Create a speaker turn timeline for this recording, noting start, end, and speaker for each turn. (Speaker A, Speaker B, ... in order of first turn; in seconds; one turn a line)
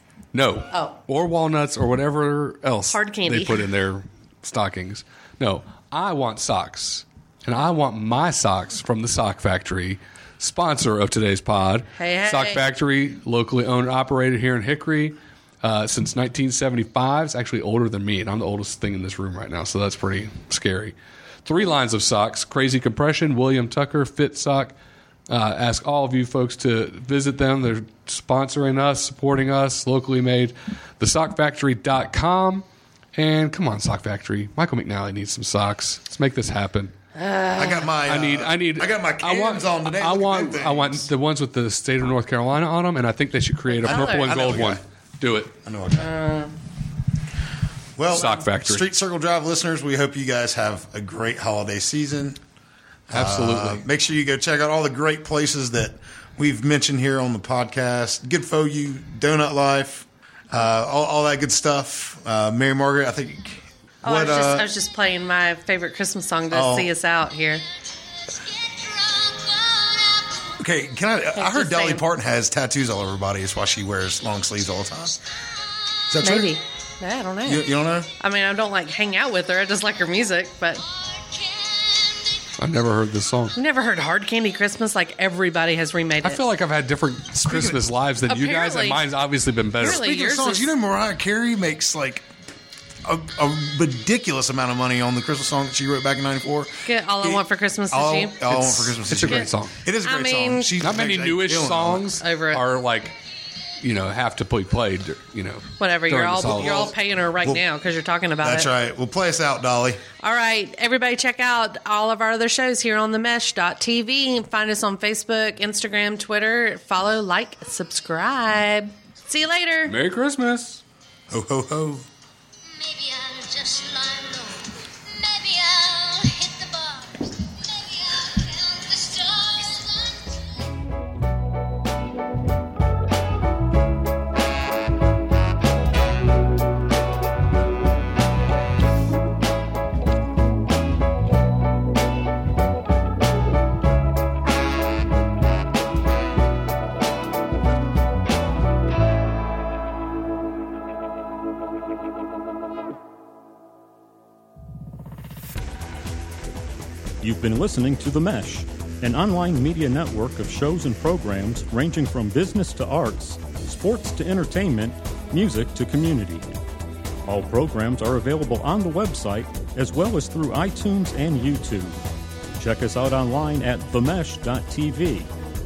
Speaker A: 0.3-24.7
Speaker B: 0.7-0.9
Speaker B: 2.9-3.7
Speaker B: 11.9-12.7
Speaker A: 25.3-36.9
Speaker B: 37.1-37.9
Speaker C: 37.6-41.1
Speaker A: 38.0-45.5
Speaker B: 43.7-44.5
Speaker C: 43.8-44.8
Speaker C: 45.6-46.1
Speaker B: 46.0-46.5
Speaker C: 48.0-52.4
Speaker A: 48.1-48.9
Speaker C: 53.1-64.7
Speaker A: 53.1-53.8
Speaker B: 64.0-67.6
Speaker C: 66.5-66.9
Speaker D: 68.3-70.6
Speaker C: 70.6-75.1
Speaker B: 71.3-72.0
Speaker C: 76.1-76.5
Speaker B: 76.2-80.8
Speaker C: 77.4-78.1
Speaker D: 80.9-82.5
Speaker A: 82.6-83.5
Speaker B: 83.5-86.4
Speaker A: 86.2-90.0
Speaker C: 87.5-87.9
Speaker B: 88.3-89.0
Speaker B: 89.8-90.7
Speaker C: 89.8-92.3
Speaker C: 93.0-102.1
Speaker B: 96.8-99.5
Speaker A: 98.5-99.8
Speaker B: 100.0-100.7
Speaker A: 100.8-103.2
Speaker B: 102.2-102.6
Speaker A: 103.8-106.9
Speaker B: 105.8-108.7
Speaker C: 106.5-107.6
Speaker C: 108.4-110.0
Speaker B: 110.2-120.0
Speaker A: 119.9-120.8
Speaker C: 121.3-122.1
Speaker D: 122.7-130.4
Speaker E: 157.2-166.5
Speaker E: 167.3-172.0
Speaker E: 172.6-175.3